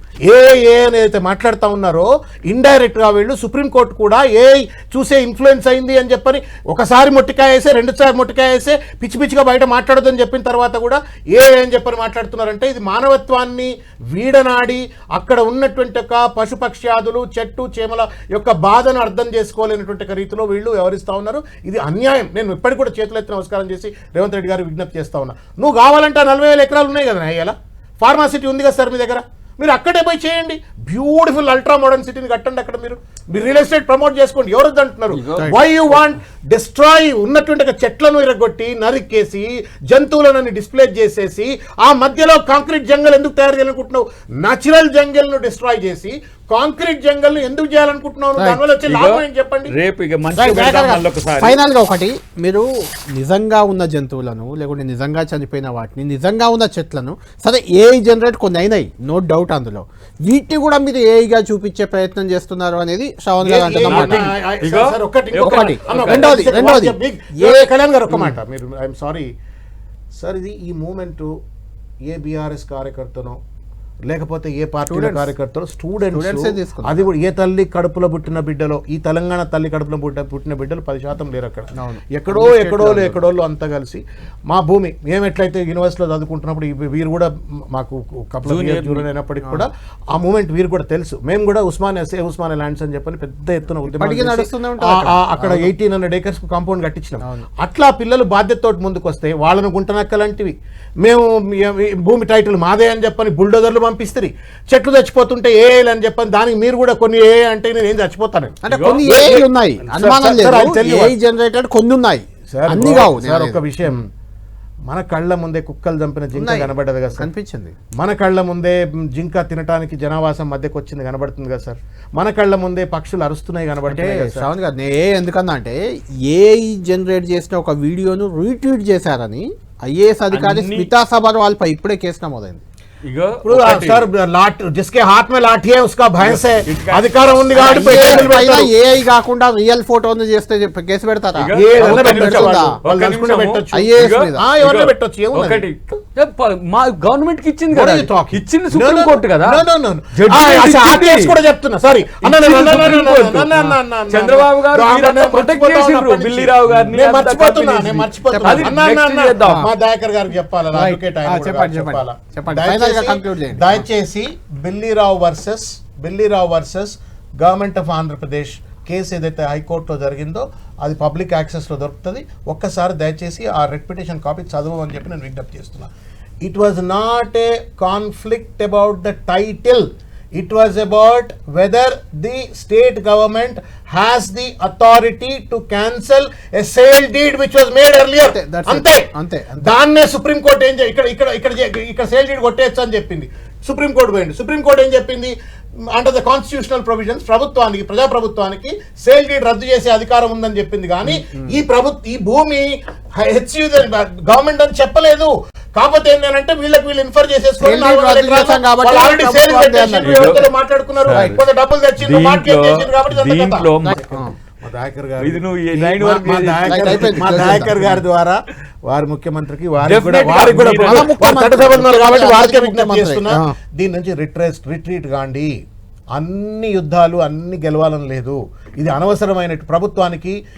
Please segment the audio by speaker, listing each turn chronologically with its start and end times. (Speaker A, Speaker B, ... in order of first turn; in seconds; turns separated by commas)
Speaker A: 0.2-49.7, Speaker B: 35.1-36.0, Speaker B: 48.9-51.6, Speaker C: 50.4-64.3, Speaker A: 50.5-50.9, Speaker A: 63.4-69.3, Speaker B: 63.8-66.5, Speaker C: 65.4-68.4, Speaker A: 70.2-71.3, Speaker A: 72.1-73.4, Speaker A: 74.1-111.2, Speaker C: 74.9-75.3, Speaker C: 76.1-77.1, Speaker C: 81.8-83.2, Speaker B: 88.5-89.1, Speaker C: 93.9-95.7, Speaker C: 108.6-114.0, Speaker B: 108.7-109.4, Speaker A: 112.5-114.0, Speaker A: 114.9-117.3, Speaker C: 116.3-117.8, Speaker A: 118.0-124.5, Speaker C: 123.9-132.6, Speaker B: 130.3-130.9, Speaker B: 133.0-134.1, Speaker A: 133.4-138.7, Speaker B: 136.2-138.4, Speaker C: 137.6-142.8, Speaker B: 141.3-151.3, Speaker A: 141.5-145.6, Speaker C: 143.7-144.5, Speaker A: 147.7-175.9, Speaker B: 152.2-159.7, Speaker C: 160.7-163.8, Speaker A: 176.4-189.1, Speaker C: 188.2-189.7, Speaker A: 189.6-195.3, Speaker A: 195.9-225.5, Speaker C: 201.1-201.4, Speaker C: 207.6-210.4, Speaker B: 210.0-210.5, Speaker B: 211.1-211.4, Speaker B: 212.0-214.0, Speaker C: 213.8-214.3, Speaker B: 215.2-217.7, Speaker C: 216.7-218.0, Speaker B: 219.8-221.1, Speaker C: 220.4-223.5, Speaker A: 226.2-230.4